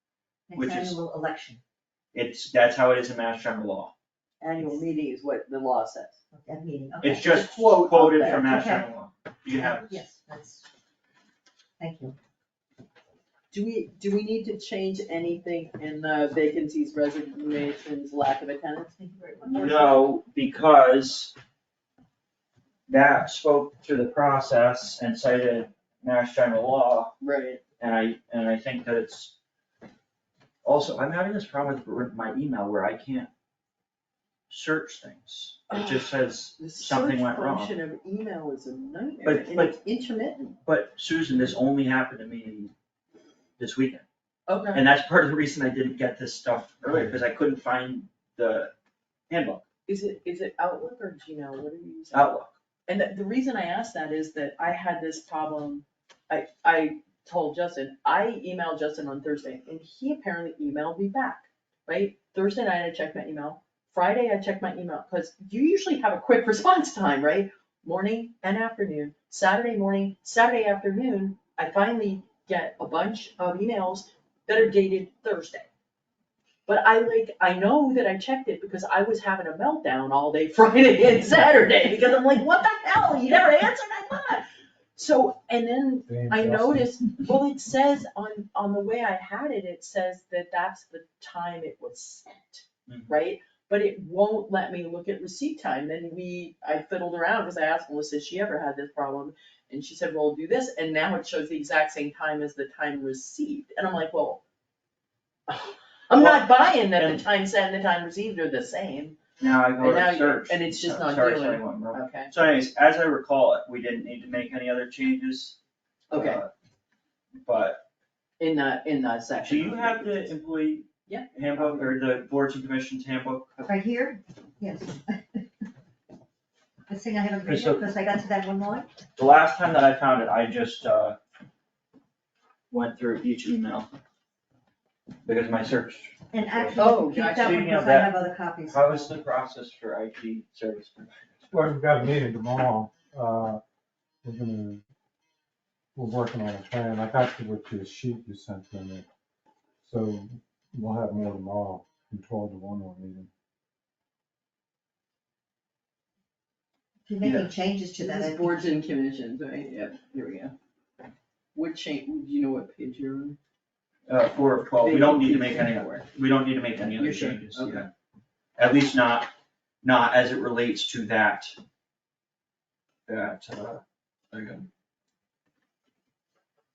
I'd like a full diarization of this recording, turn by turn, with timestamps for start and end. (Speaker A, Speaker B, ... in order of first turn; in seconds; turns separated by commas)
Speaker A: 0.5-1.6, Speaker B: 0.6-1.0, Speaker B: 2.1-3.9, Speaker C: 4.4-6.2, Speaker A: 6.3-7.5, Speaker B: 7.0-10.1, Speaker C: 7.3-8.5, Speaker A: 8.1-8.9, Speaker A: 9.5-10.7, Speaker A: 11.8-12.2, Speaker C: 13.5-18.9, Speaker A: 19.0-20.1, Speaker B: 19.5-21.3, Speaker C: 19.5-19.9, Speaker B: 22.9-27.1, Speaker C: 27.2-27.6, Speaker B: 27.8-29.4, Speaker B: 30.6-33.3, Speaker B: 34.5-37.8, Speaker C: 35.7-40.6, Speaker B: 39.2-39.8, Speaker B: 40.6-42.7, Speaker B: 43.6-44.0, Speaker C: 44.5-44.9, Speaker B: 44.7-48.7, Speaker B: 49.3-49.6, Speaker C: 49.9-52.3, Speaker B: 52.1-52.5, Speaker C: 52.9-75.7, Speaker C: 76.7-104.4, Speaker D: 86.1-86.9, Speaker B: 92.9-93.2, Speaker C: 105.5-109.2, Speaker B: 106.2-107.2, Speaker B: 109.4-115.6, Speaker C: 109.8-112.3, Speaker C: 116.1-116.4, Speaker B: 116.1-116.5, Speaker B: 117.5-117.8, Speaker C: 118.4-120.3, Speaker B: 119.4-123.6, Speaker C: 121.1-122.0, Speaker A: 123.6-125.5, Speaker A: 126.9-128.9, Speaker B: 127.5-127.9, Speaker B: 129.2-131.2, Speaker B: 132.7-133.9, Speaker B: 135.2-141.5, Speaker A: 136.3-139.2, Speaker C: 136.8-137.8, Speaker D: 141.5-143.6, Speaker D: 144.2-144.8, Speaker D: 145.9-149.1, Speaker D: 149.8-153.3, Speaker A: 157.1-158.7, Speaker B: 157.2-157.5, Speaker C: 158.0-160.6, Speaker C: 161.6-163.4, Speaker B: 164.1-167.9, Speaker C: 164.8-166.1, Speaker C: 166.9-167.9, Speaker B: 168.6-169.3, Speaker B: 169.8-171.5, Speaker B: 173.1-174.7